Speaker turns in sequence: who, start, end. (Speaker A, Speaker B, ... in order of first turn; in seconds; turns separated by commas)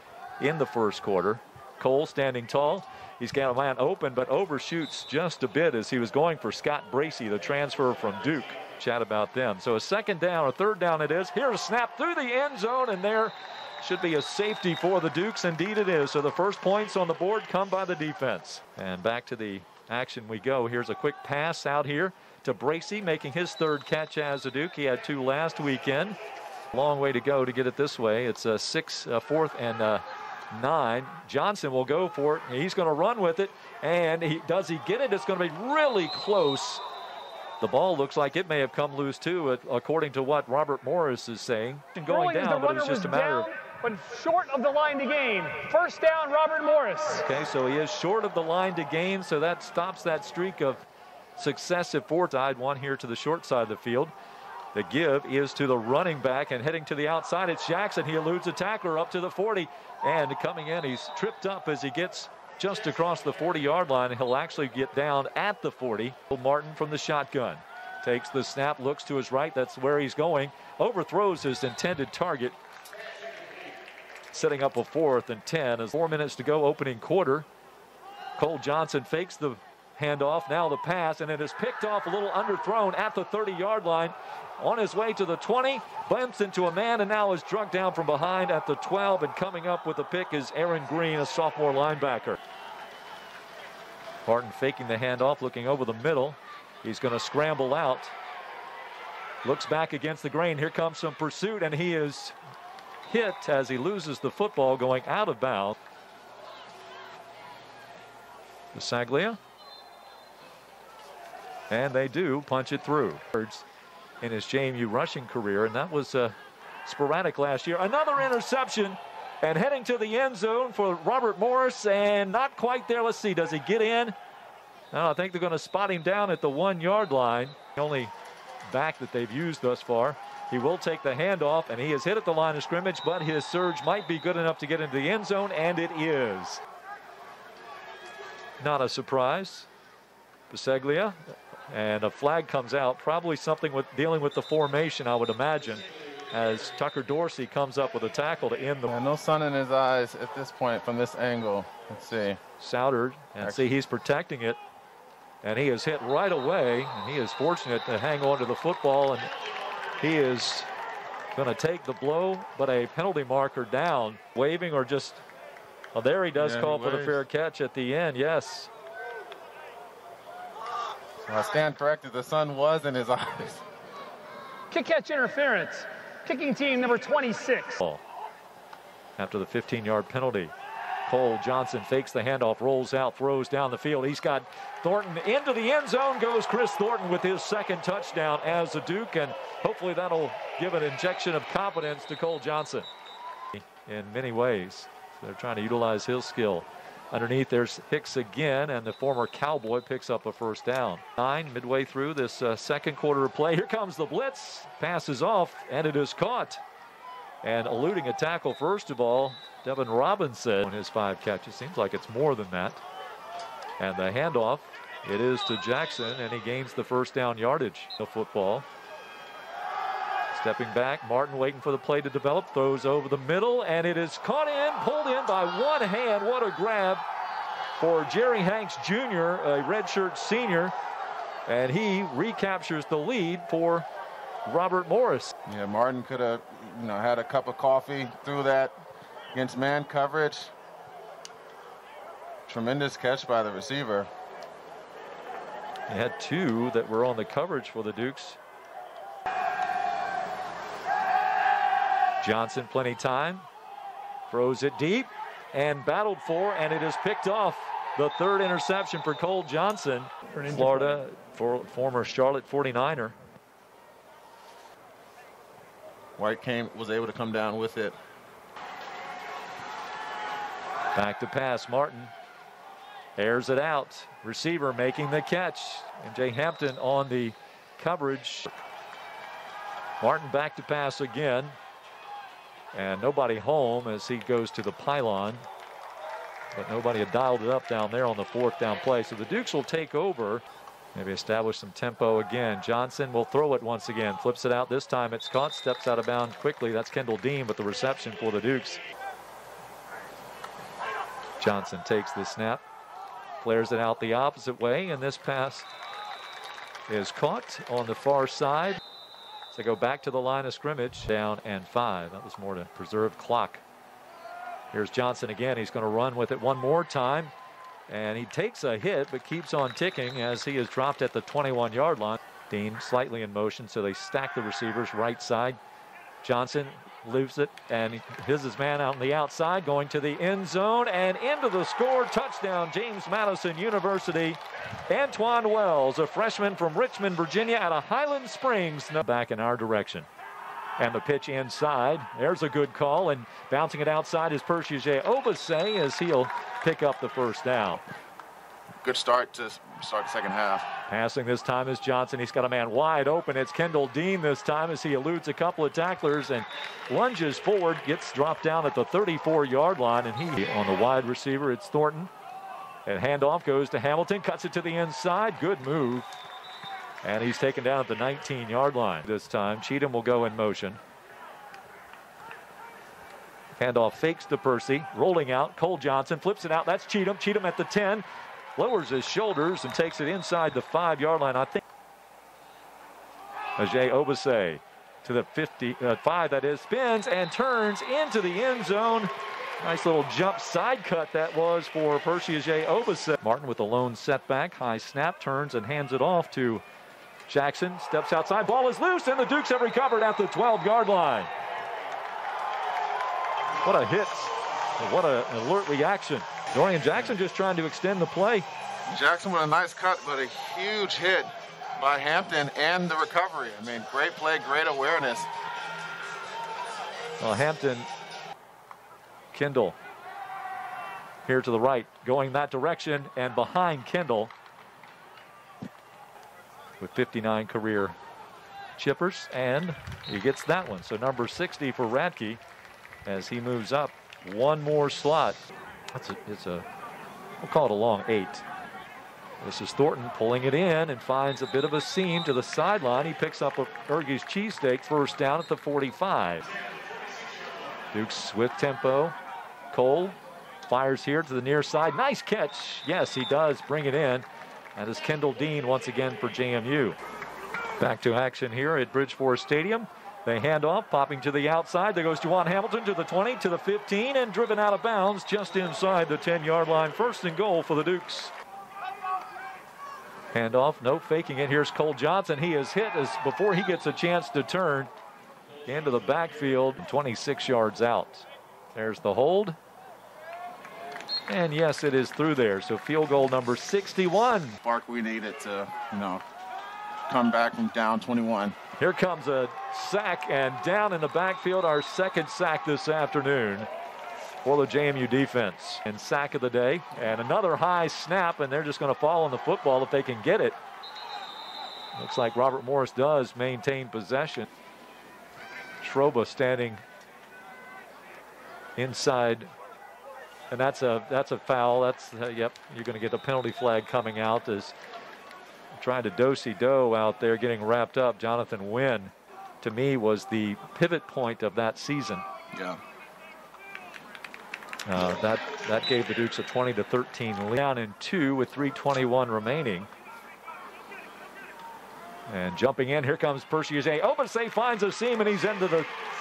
Speaker A: 0.4-26.2, Speaker A: 26.7-36.8, Speaker A: 37.6-43.5, Speaker B: 42.1-47.2, Speaker A: 47.1-50.8, Speaker A: 51.4-54.1, Speaker A: 54.7-72.6, Speaker A: 74.3-77.5, Speaker A: 78.4-92.4, Speaker A: 94.3-98.2, Speaker A: 99.5-102.4, Speaker A: 103.1-105.8, Speaker A: 108.7-109.4, Speaker A: 111.7-113.7, Speaker A: 114.2-124.2, Speaker A: 124.9-128.1, Speaker A: 128.7-136.6, Speaker A: 138.6-139.7, Speaker A: 140.5-141.2, Speaker A: 141.7-148.9, Speaker C: 148.9-152.4, Speaker A: 152.6-154.6, Speaker C: 153.4-153.7, Speaker A: 155.4-159.3, Speaker A: 160.0-160.7, Speaker A: 161.3-165.2, Speaker A: 165.9-168.7, Speaker C: 166.4-167.2, Speaker C: 171.2-173.6, Speaker B: 174.7-177.8, Speaker A: 179.2-180.5, Speaker A: 181.1-192.9, Speaker A: 193.5-206.6, Speaker A: 207.4-212.8, Speaker A: 213.8-218.7, Speaker A: 220.3-227.0, Speaker A: 227.8-230.8, Speaker A: 231.5-233.9, Speaker A: 234.4-235.3, Speaker C: 235.5-238.8, Speaker C: 239.3-240.5, Speaker C: 242.5-244.1, Speaker A: 245.9-248.4, Speaker A: 252.2-253.5, Speaker A: 254.3-263.2, Speaker B: 260.4-261.0, Speaker C: 266.2-268.0, Speaker A: 270.9-272.1, Speaker A: 273.2-278.6, Speaker A: 280.0-281.6, Speaker A: 282.7-285.4, Speaker A: 286.6-298.8, Speaker A: 301.4-302.6, Speaker A: 303.4-305.7, Speaker A: 306.9-308.8, Speaker A: 309.5-313.6, Speaker A: 314.7-317.3, Speaker A: 317.9-325.6, Speaker A: 326.2-340.1, Speaker A: 340.8-347.8, Speaker C: 348.8-350.7, Speaker A: 350.9-362.1, Speaker A: 362.9-366.1, Speaker A: 367.0-370.8, Speaker A: 373.6-378.1, Speaker A: 378.6-381.6, Speaker A: 383.6-396.6, Speaker A: 397.3-401.3, Speaker A: 403.6-408.5, Speaker C: 408.9-415.3, Speaker A: 417.2-417.9, Speaker A: 419.3-419.8, Speaker A: 421.2-424.3, Speaker A: 426.8-428.0, Speaker A: 428.8-432.4, Speaker A: 433.1-435.4, Speaker A: 435.9-436.7, Speaker A: 437.4-438.5, Speaker A: 439.4-446.5, Speaker A: 447.9-449.2, Speaker A: 449.7-454.2, Speaker A: 454.8-457.0, Speaker A: 457.8-468.3, Speaker A: 470.3-474.9, Speaker A: 475.7-479.6, Speaker A: 481.3-484.6, Speaker C: 484.6-486.2, Speaker C: 487.1-488.6, Speaker A: 488.8-493.7, Speaker A: 494.4-500.6, Speaker A: 502.0-504.5, Speaker A: 505.8-506.8, Speaker A: 508.8-509.5, Speaker A: 510.5-514.8, Speaker A: 515.7-522.2, Speaker C: 522.5-522.8, Speaker A: 524.9-529.9, Speaker A: 532.3-535.9